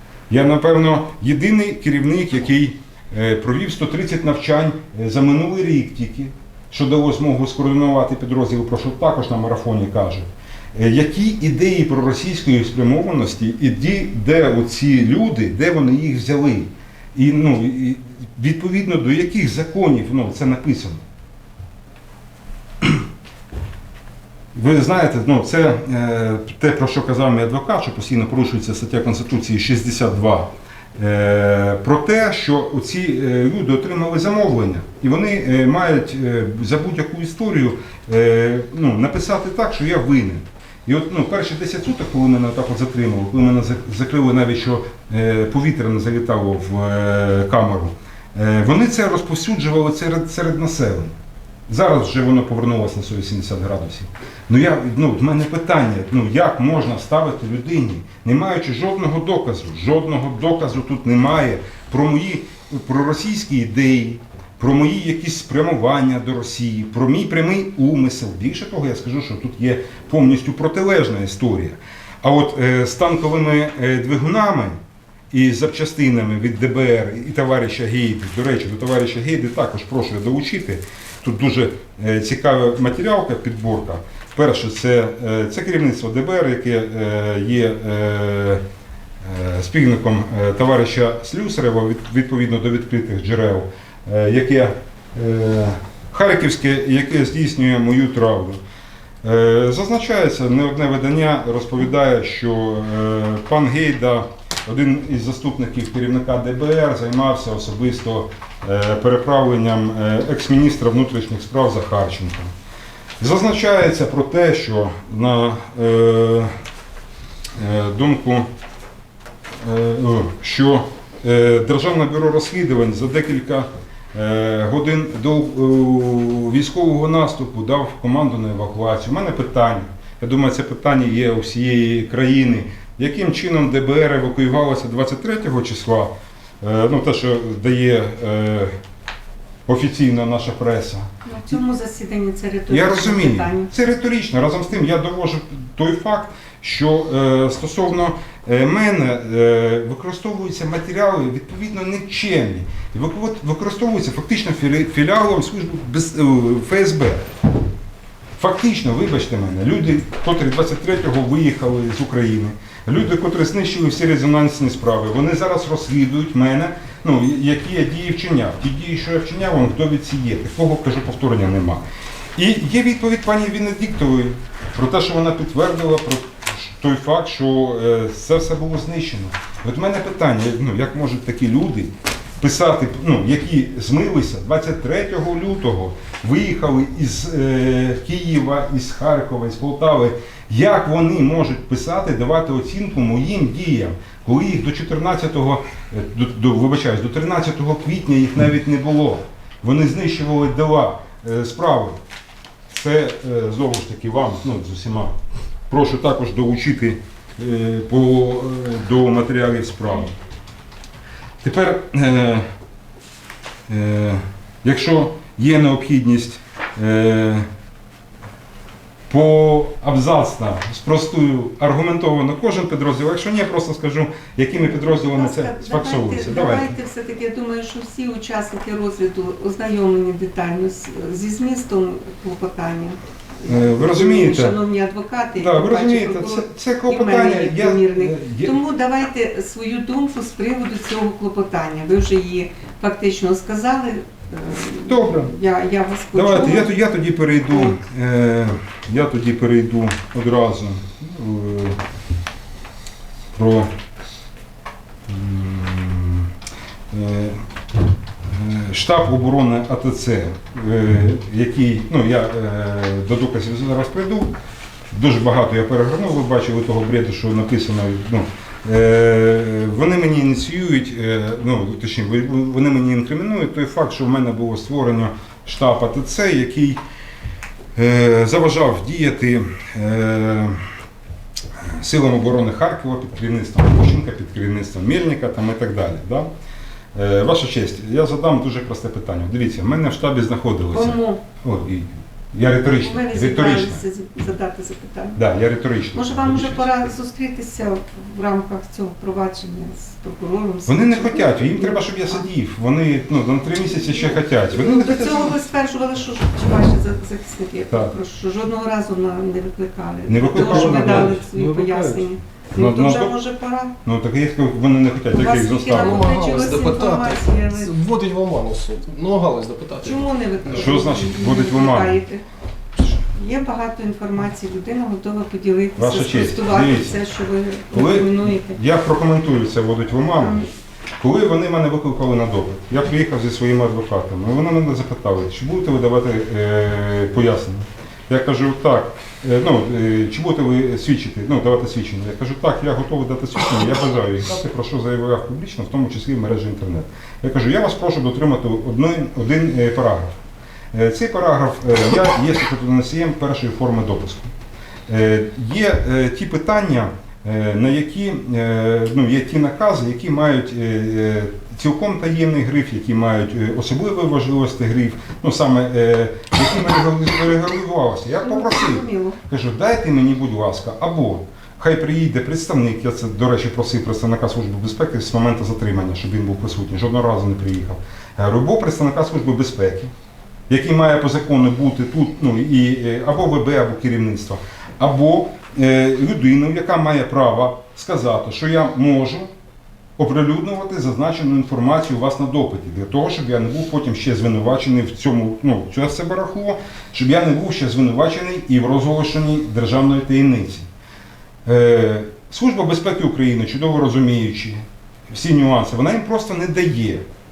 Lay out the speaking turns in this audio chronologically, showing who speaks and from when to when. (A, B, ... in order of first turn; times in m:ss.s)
0:00.3-0:21.0 A
0:24.5-0:51.1 A
0:51.7-1:14.8 A
1:15.3-1:28.6 A
1:29.2-1:38.6 A
1:39.2-1:52.5 A
1:53.2-1:56.5 A
1:57.6-1:58.5 A
1:59.6-2:18.7 A
2:19.7-2:21.6 A
2:21.2-2:23.7 B
2:22.7-2:37.3 A
2:38.4-2:51.8 A
2:52.4-3:22.0 A
3:22.7-3:25.1 A
3:25.7-3:30.1 A
3:31.4-3:32.5 A
3:33.7-3:37.5 A
3:39.1-3:46.8 A
3:44.6-4:06.7 B
3:53.4-3:54.6 A
3:55.4-3:58.6 A
4:04.8-4:05.3 A
4:06.1-4:11.8 A
4:07.5-4:07.8 B
4:13.3-4:13.7 A
4:15.1-4:16.3 A
4:16.9-4:17.4 A
4:18.3-4:24.3 A
4:24.9-4:36.8 A
4:37.8-4:40.6 A
4:41.6-4:46.3 A
4:46.9-4:53.8 A
4:50.7-4:51.2 B
4:52.6-4:55.2 B
4:55.2-4:56.6 A
4:55.9-5:02.2 B
5:00.7-5:05.4 A
5:03.9-5:13.8 B
5:10.1-5:11.2 A
5:10.3-5:12.1 C
5:12.6-5:13.2 A
5:13.8-5:16.1 A
5:15.1-5:17.8 B
5:15.7-5:20.7 C
5:19.8-5:22.2 B
5:20.5-5:22.0 A
5:23.0-5:28.6 B
5:25.8-5:27.0 A
5:27.7-5:30.4 A
5:30.2-5:30.5 B
5:31.0-5:50.2 A
5:50.7-5:54.3 A
5:54.9-6:19.9 A
6:08.2-6:09.2 B
6:20.5-6:29.3 A
6:30.0-6:40.7 A
6:41.4-6:47.0 A